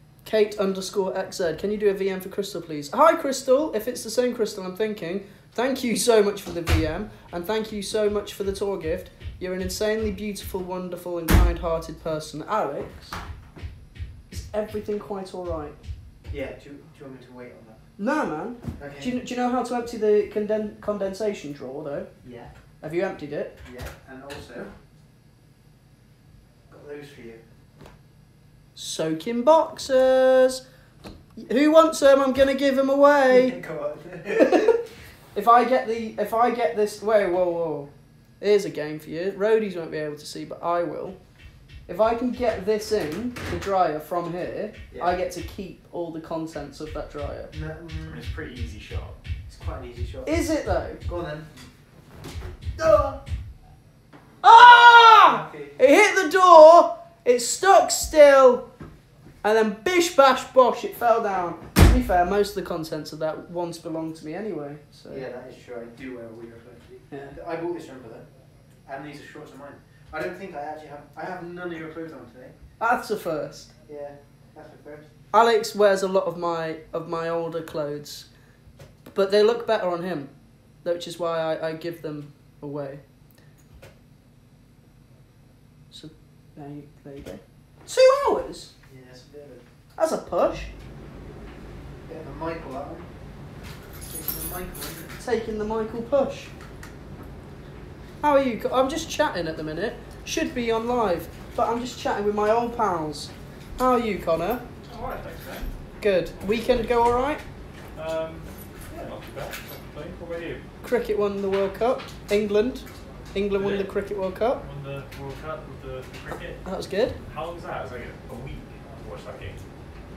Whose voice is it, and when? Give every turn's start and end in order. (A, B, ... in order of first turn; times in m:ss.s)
0:00.2-0:13.2 A
0:14.3-0:15.8 A
0:16.3-0:17.9 B
0:18.0-0:22.1 A
0:18.8-0:19.2 B
0:22.2-0:22.5 B
0:22.8-0:23.6 A
0:23.6-0:24.7 B
0:26.7-0:27.4 B
0:28.8-0:30.6 A
0:31.4-0:33.6 A
0:33.3-0:34.8 B
0:35.3-0:47.5 A
0:44.9-0:45.2 B
0:47.5-0:48.3 B
0:48.0-0:49.2 C
0:49.5-0:50.5 B
0:50.2-0:51.0 A
0:51.0-0:51.5 B
0:52.8-0:53.2 B
0:54.4-0:58.7 A
0:54.9-0:55.8 B
0:59.4-1:05.2 A
1:05.1-1:12.6 B
1:07.1-1:07.4 A
1:12.8-1:13.7 A
1:13.9-1:15.1 B
1:15.3-1:18.3 A
1:19.1-1:23.0 A
1:25.9-1:28.7 A
1:28.9-1:29.6 B
1:30.0-1:30.7 A
1:32.1-1:33.1 B
1:34.1-1:35.2 B
1:35.2-1:36.5 A
1:38.2-1:44.7 A
1:44.8-1:45.7 C
1:46.0-1:47.4 A
1:46.4-1:47.0 C
1:47.9-1:50.6 C
1:50.8-1:54.6 A
1:53.6-1:53.9 C
1:54.6-1:56.6 C
1:56.6-1:57.2 A
1:57.2-1:59.6 C